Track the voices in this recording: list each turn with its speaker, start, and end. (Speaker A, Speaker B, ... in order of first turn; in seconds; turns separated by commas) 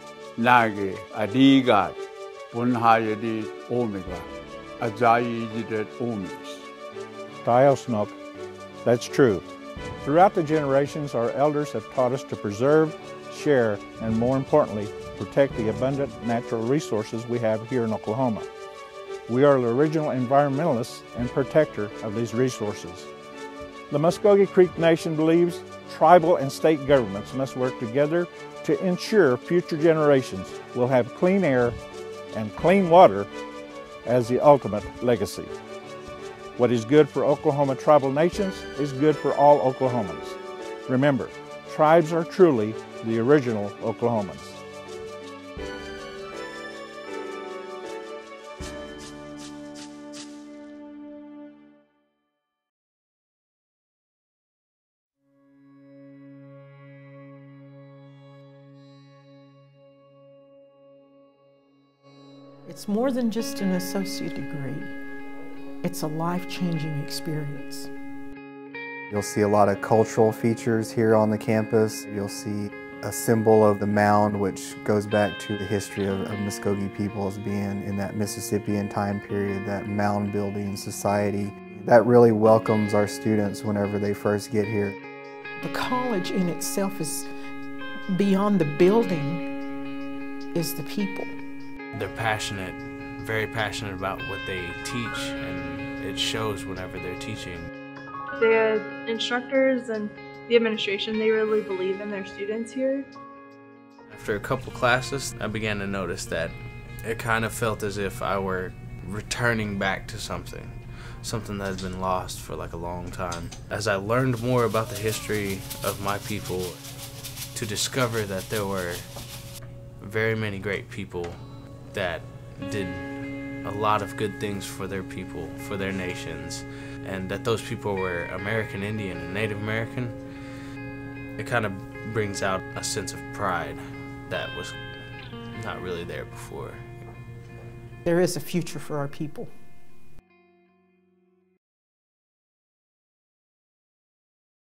Speaker A: 0.4-2.0, Speaker A: 2.5-4.3, Speaker A: 4.8-6.6, Speaker B: 7.4-8.2, Speaker B: 8.8-9.4, Speaker B: 10.0-18.5, Speaker B: 19.3-23.1, Speaker B: 23.9-31.8, Speaker B: 32.3-33.3, Speaker B: 34.1-35.5, Speaker B: 36.6-44.6, Speaker C: 62.6-65.0, Speaker C: 65.8-67.9, Speaker D: 69.1-85.0, Speaker C: 85.6-87.3, Speaker C: 88.1-89.5, Speaker C: 90.5-91.4, Speaker E: 91.9-97.7, Speaker F: 98.4-103.1, Speaker E: 104.1-116.8, Speaker E: 117.5-119.1, Speaker E: 120.0-130.2, Speaker E: 131.4-134.8, Speaker E: 135.5-137.1, Speaker C: 138.1-139.5